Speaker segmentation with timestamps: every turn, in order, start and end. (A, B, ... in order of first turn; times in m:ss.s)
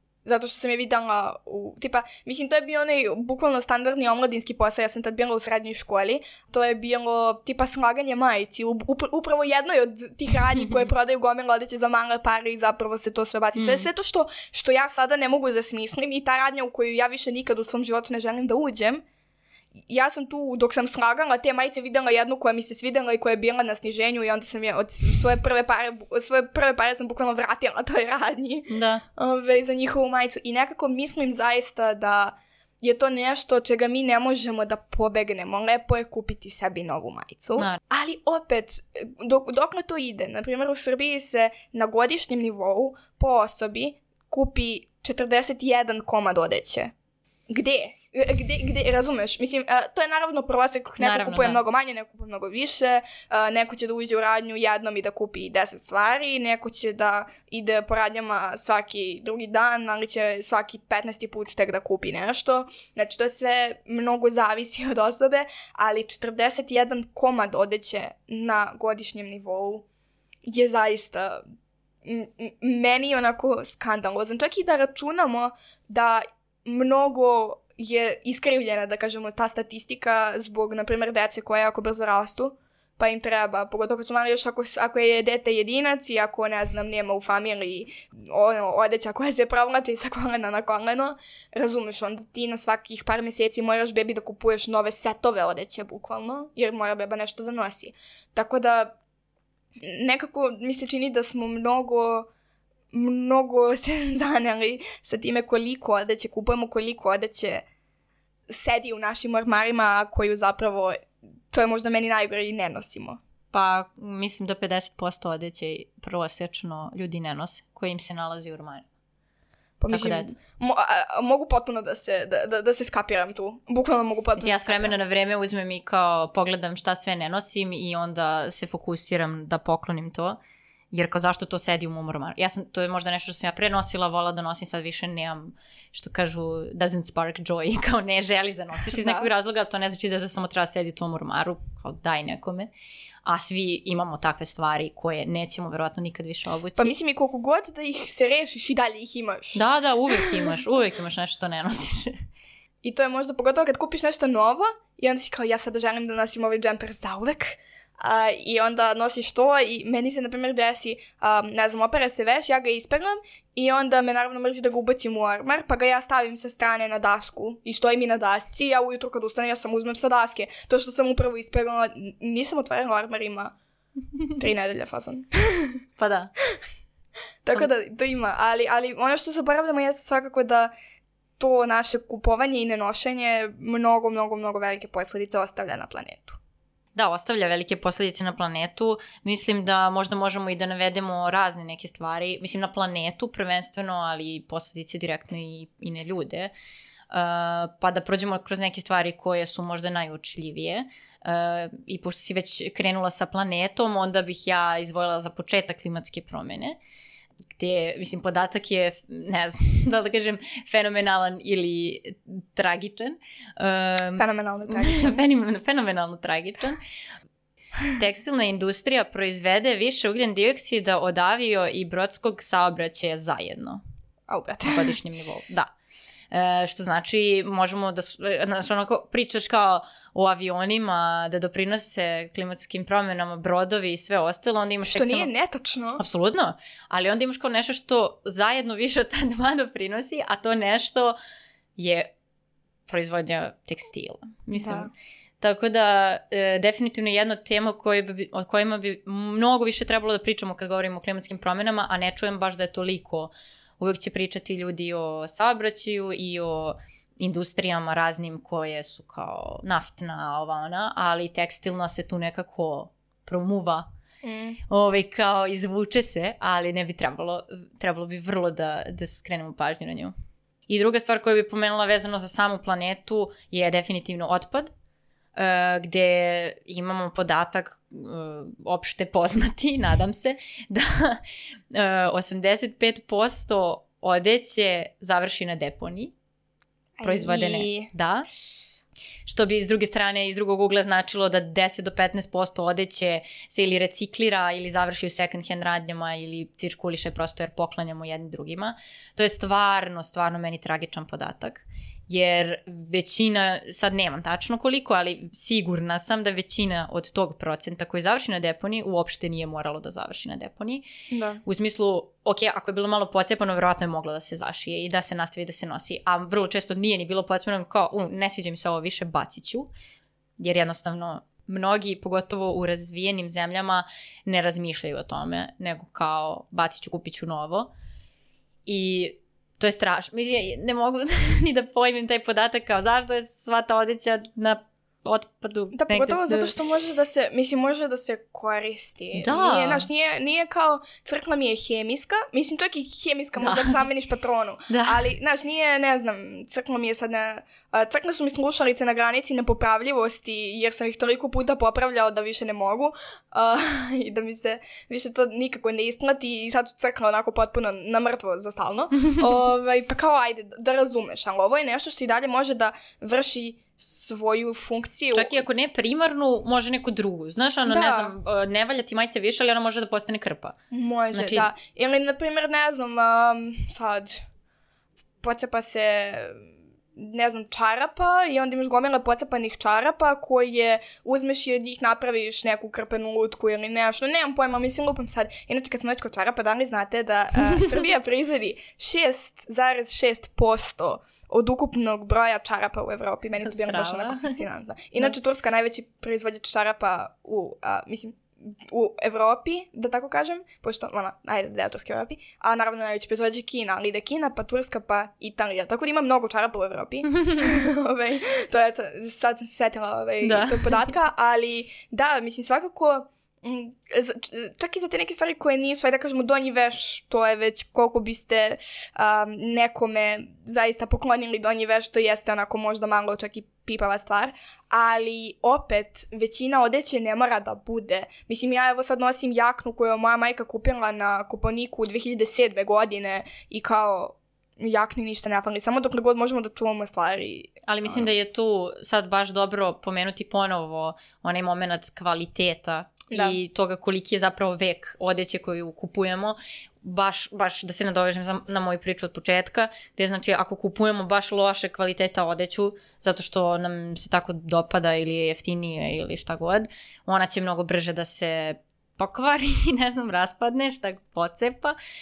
0:00.2-0:19.0 A
0:13.6-0:13.9 B
0:19.9-0:46.9 A
0:28.7-0:29.0 B
0:47.5-1:09.8 A
0:51.0-0:51.6 B
1:10.5-1:11.4 A
1:12.0-1:38.9 A
1:39.8-1:42.3 A
1:42.9-1:47.6 A
1:48.5-1:53.2 A
1:53.5-1:58.8 B
1:59.8-2:04.9 A
1:59.9-2:00.3 B
2:04.4-2:10.4 B
2:10.9-2:22.7 B
2:18.9-2:19.3 A
2:23.2-2:26.9 B
2:26.8-2:30.4 A
2:29.5-2:32.2 B
2:32.8-2:53.5 A
2:54.4-2:55.8 A
2:56.0-2:56.3 B
2:57.4-3:00.7 A
3:01.4-3:06.4 A
3:06.9-3:16.5 B
3:17.1-3:26.8 B
3:27.6-3:36.8 B
3:34.2-3:35.2 A
3:37.9-3:43.8 B
3:44.3-3:44.9 A
3:44.6-3:45.7 B
3:46.3-3:55.3 B
3:54.8-3:56.0 A
3:56.0-4:01.1 B
4:01.8-4:02.1 B
4:02.9-4:04.9 B
4:04.5-4:04.9 A
4:05.4-4:23.8 B
4:24.2-4:24.6 A
4:24.7-4:30.1 B
4:30.7-4:34.7 B
4:35.3-4:46.1 B
4:47.0-4:47.9 A
4:47.0-4:48.3 B
4:49.2-5:10.8 B
5:11.1-5:11.4 A
5:11.4-5:19.7 B
5:20.4-5:27.7 B
5:28.6-5:36.5 B
5:35.7-6:05.4 A
5:39.1-5:39.9 B
5:43.4-5:43.8 B
5:44.7-5:45.1 B
6:05.1-6:10.6 B
6:07.6-6:08.1 A
6:10.7-6:14.2 A
6:11.1-6:11.5 B
6:15.2-7:18.1 A
6:33.4-6:34.4 B
6:47.2-6:47.5 B
6:50.2-6:50.8 B
7:17.7-7:41.7 B
7:23.1-7:23.4 A